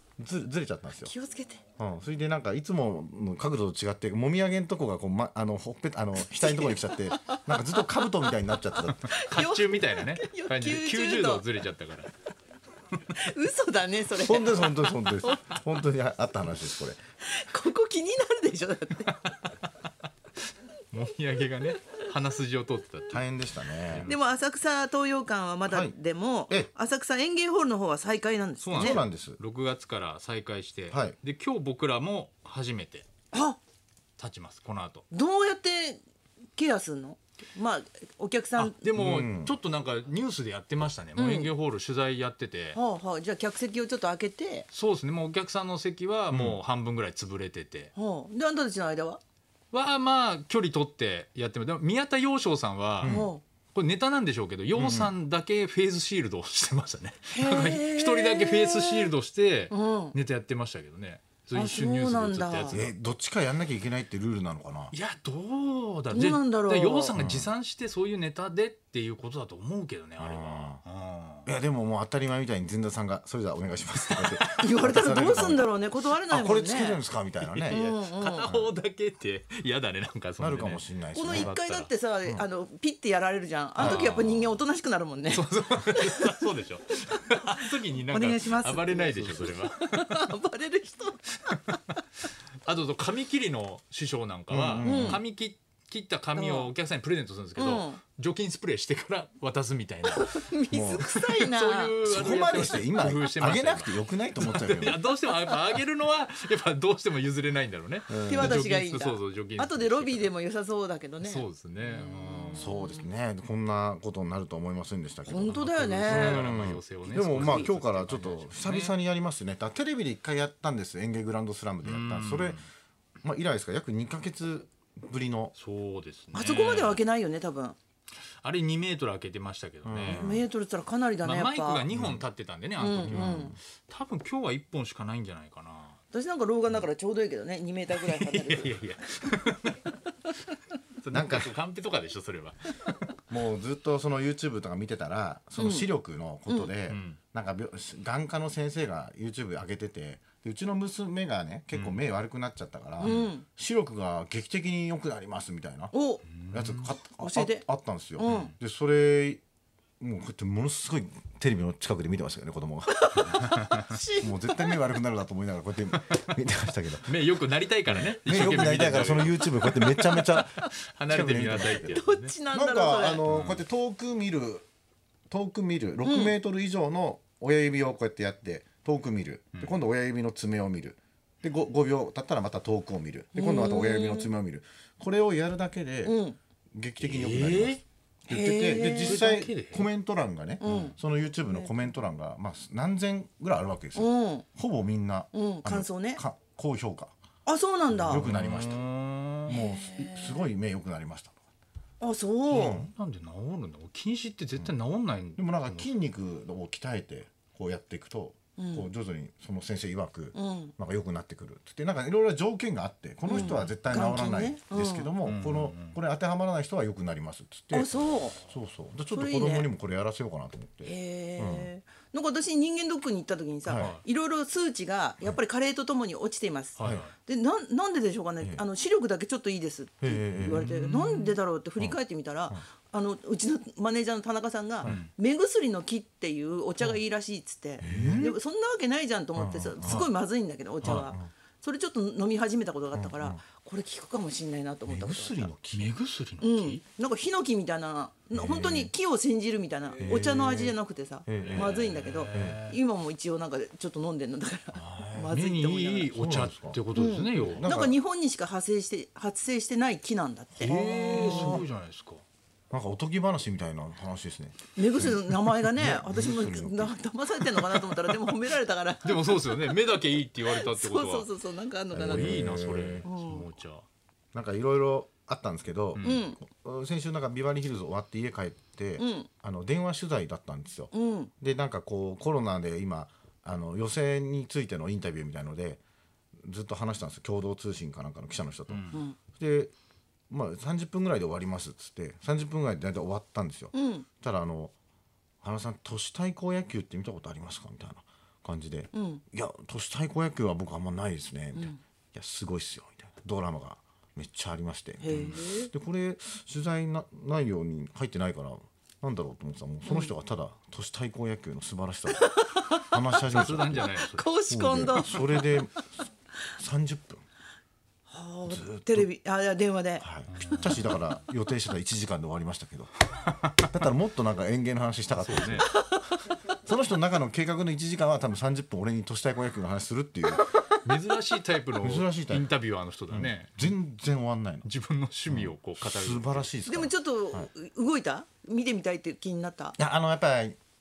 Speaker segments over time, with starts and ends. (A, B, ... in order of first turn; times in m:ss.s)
0:00.2-0:01.1 A
0:01.0-0:01.6 B
0:01.8-0:09.1 A
0:06.4-0:11.4 B
0:09.1-0:12.1 C
0:13.1-0:15.6 B
0:14.2-0:17.0 A
0:17.2-0:19.4 B
0:20.9-0:24.2 C
0:23.1-0:24.1 A
0:24.0-0:29.0 B
0:25.7-0:26.0 A
0:28.6-0:33.1 C
0:28.8-0:29.4 A
0:30.9-0:31.2 A
0:33.3-0:33.6 B
0:34.2-0:35.1 C
0:35.1-0:36.0 B
0:36.6-0:38.8 B
0:38.6-0:42.8 C
0:39.0-0:39.6 A
0:41.2-0:41.5 B
0:42.8-0:44.7 B
0:44.7-0:47.9 C
0:46.3-0:46.6 A
0:48.0-0:49.2 B
0:49.7-1:02.9 C
0:53.0-0:53.3 A
0:53.0-0:53.4 B
0:54.8-0:55.1 A
0:57.3-0:59.1 B
0:59.7-1:00.2 B
1:01.5-1:02.8 B
1:02.7-1:04.9 A
1:04.9-1:11.5 C
1:06.1-1:07.2 B
1:07.2-1:07.5 A
1:10.2-1:10.8 A
1:11.5-1:15.7 A
1:14.1-1:15.4 C
1:14.6-1:17.0 B
1:16.3-1:17.8 A
1:17.4-1:21.9 C
1:17.7-1:18.6 B
1:20.4-1:21.5 A
1:21.2-1:25.5 B
1:23.8-1:24.1 A
1:23.8-1:24.6 C
1:25.3-1:30.3 C
1:26.0-1:26.4 B
1:27.5-1:31.8 B
1:32.6-1:40.5 C
1:34.5-1:35.2 A
1:34.8-1:35.2 B
1:36.4-1:36.7 B
1:37.6-1:38.0 B
1:40.1-1:42.7 B
1:40.7-1:41.1 A
1:41.0-1:50.4 C
1:42.0-1:45.0 A
1:48.1-1:48.6 A
1:48.3-1:53.1 B
1:51.2-1:52.7 C
1:52.5-2:02.6 A
1:55.3-1:56.4 B
1:55.4-1:59.0 C
2:01.8-2:02.6 C
2:03.2-2:05.5 A
2:05.6-2:07.0 C
2:06.3-2:07.8 B
2:08.4-2:10.3 C
2:09.8-2:10.4 A
2:10.1-2:11.9 B
2:11.2-2:16.0 C
2:11.9-2:12.2 A
2:12.8-2:13.5 B
2:12.9-2:13.6 A
2:16.1-2:18.8 B
2:17.9-2:20.0 C
2:21.0-2:23.1 C
2:21.1-2:21.5 A
2:23.3-2:35.9 A
2:25.6-2:25.9 B
2:26.9-2:27.2 C
2:31.7-2:32.0 C
2:33.0-2:33.4 B
2:33.0-2:33.3 C
2:35.9-2:36.2 B
2:36.4-2:37.0 C
2:36.5-2:39.4 A
2:37.2-2:37.6 B
2:38.2-2:38.5 B
2:38.2-2:38.6 C
2:40.0-2:43.5 A
2:42.9-2:44.8 B
2:43.4-2:43.8 C
2:44.2-2:47.2 A
2:47.1-2:52.3 C
2:47.9-2:54.7 A
2:49.9-2:50.7 B
2:51.8-2:53.2 B
2:53.3-2:53.6 C
2:55.3-3:06.2 A
2:56.0-2:56.4 B
2:59.5-2:59.8 C
3:03.4-3:04.3 B
3:06.0-3:06.4 B
3:06.7-3:17.1 A
3:07.0-3:07.8 C
3:08.3-3:09.3 B
3:08.8-3:09.9 C
3:10.6-3:11.8 B
3:10.7-3:10.9 C
3:14.0-3:14.5 B
3:15.3-3:16.2 B
3:17.5-3:18.3 B
3:18.0-3:19.6 C
3:18.1-3:18.8 A
3:19.5-3:21.4 A
3:19.5-3:20.5 B
3:22.0-3:22.8 B
3:22.5-3:25.9 C
3:22.5-3:22.9 A
3:25.4-3:41.7 A
3:28.6-3:28.9 B
3:30.4-3:30.7 B
3:33.3-3:35.1 B
3:33.4-3:33.8 C
3:35.2-3:36.0 C
3:37.7-3:38.4 B
3:39.1-3:39.7 B
3:40.8-4:05.5 B
3:43.6-3:43.9 A
3:46.8-3:47.1 C
3:46.8-3:47.1 A
3:50.0-3:51.2 A
3:50.4-3:51.3 C
3:51.8-3:52.7 A
3:54.8-3:55.1 C
3:57.8-3:58.4 A
3:57.8-3:58.4 C
3:59.4-4:00.1 A
3:59.8-4:00.1 C
4:00.8-4:01.3 A
4:00.8-4:01.1 C
4:02.9-4:03.4 A
4:04.9-4:06.0 A
4:05.7-4:06.8 C
4:06.4-4:16.1 B
4:08.3-4:08.9 A
4:10.0-4:12.6 A
4:11.4-4:12.8 C
4:14.8-4:15.3 A
4:15.3-4:17.7 C
4:16.1-4:16.8 A
4:16.9-4:21.6 B
4:17.4-4:18.0 A
4:20.6-4:21.7 A
4:20.6-4:22.2 C
4:22.7-4:27.0 A
4:24.8-4:29.6 B
4:27.6-4:28.0 A
4:29.0-4:31.3 C
4:30.4-4:32.5 B
4:31.9-4:33.0 A
4:32.0-4:33.8 C
4:33.0-4:33.5 B
4:34.3-4:45.8 A
4:36.0-4:36.2 C
4:36.0-4:36.4 B
4:39.0-4:39.3 B
4:40.9-4:41.3 B
4:46.4-4:49.7 A
4:48.7-4:49.0 C
4:48.9-4:49.2 B
4:50.3-4:54.7 A
4:53.7-4:54.1 B
4:55.4-5:13.9 A
4:58.9-4:59.2 B
5:01.6-5:01.8 B
5:05.0-5:05.7 B
5:09.9-5:10.1 B
5:12.1-5:12.8 B
5:13.2-5:14.3 C
5:14.0-5:15.5 B
5:14.5-5:15.9 A
5:16.5-5:17.2 A
5:18.1-5:20.1 B
5:18.5-5:19.1 A
5:20.0-5:22.9 A
5:20.3-5:21.0 C
5:23.6-5:25.8 A
5:25.1-5:25.7 C
5:25.7-5:26.4 B
5:26.6-5:30.6 A
5:30.8-5:33.8 C
5:31.8-5:32.5 A
5:33.1-5:34.7 A
5:34.6-5:36.5 C
5:35.3-5:37.5 A
5:36.6-5:39.8 B
5:39.8-5:40.6 A